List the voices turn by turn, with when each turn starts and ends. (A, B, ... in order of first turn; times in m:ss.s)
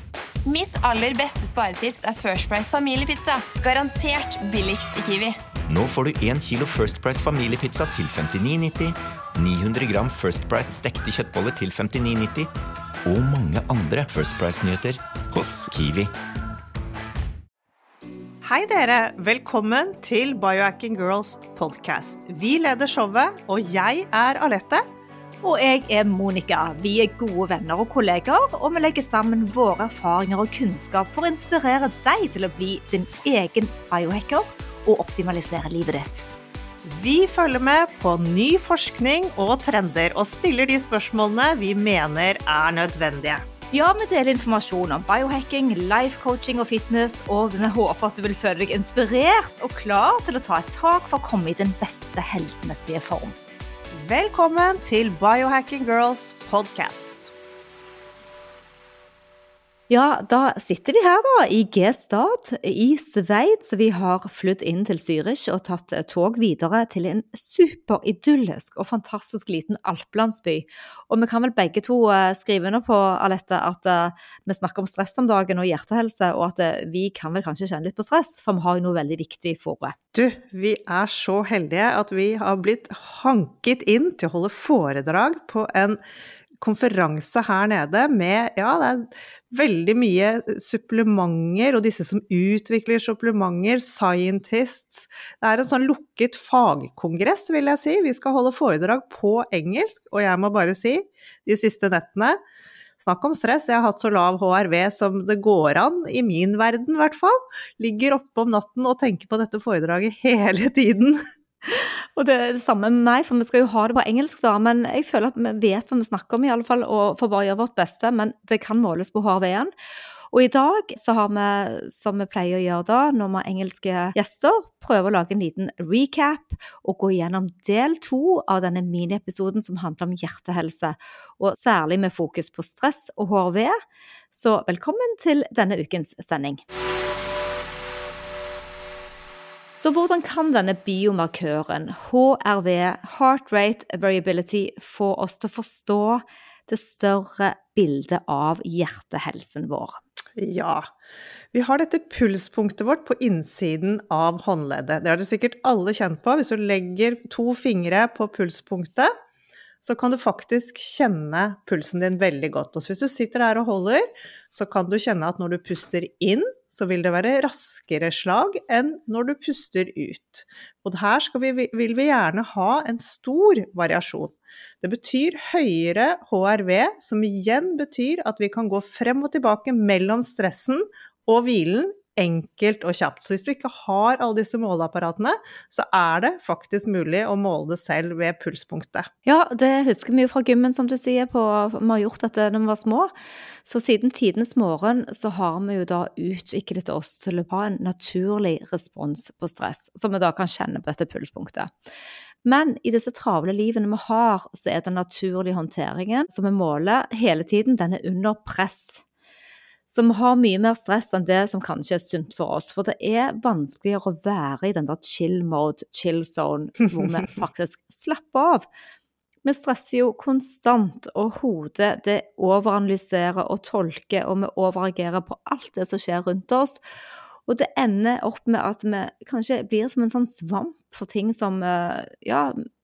0:00.4-0:05.4 A
0:05.7-0:12.5 B
0:13.0-0:16.1 B
0:18.4-0:24.8 C
0:25.4-0:36.2 D
0:36.8-0:43.4 C
0:43.7-0:53.3 D
0:54.0-0:57.3 C
0:59.9-1:19.9 D
1:20.1-1:26.0 C
1:26.6-1:42.4 C
1:43.0-1:51.2 C
1:51.6-1:59.7 D
2:00.3-2:13.8 D
2:14.3-2:16.6 D
2:19.8-2:30.0 D
2:30.4-2:30.9 C
2:31.5-2:39.1 C
2:39.8-3:09.1 C
3:09.2-3:13.1 D
3:13.6-3:21.7 D
3:22.4-3:29.0 D
3:29.9-3:38.6 D
3:39.4-3:46.8 D
3:47.5-3:52.7 D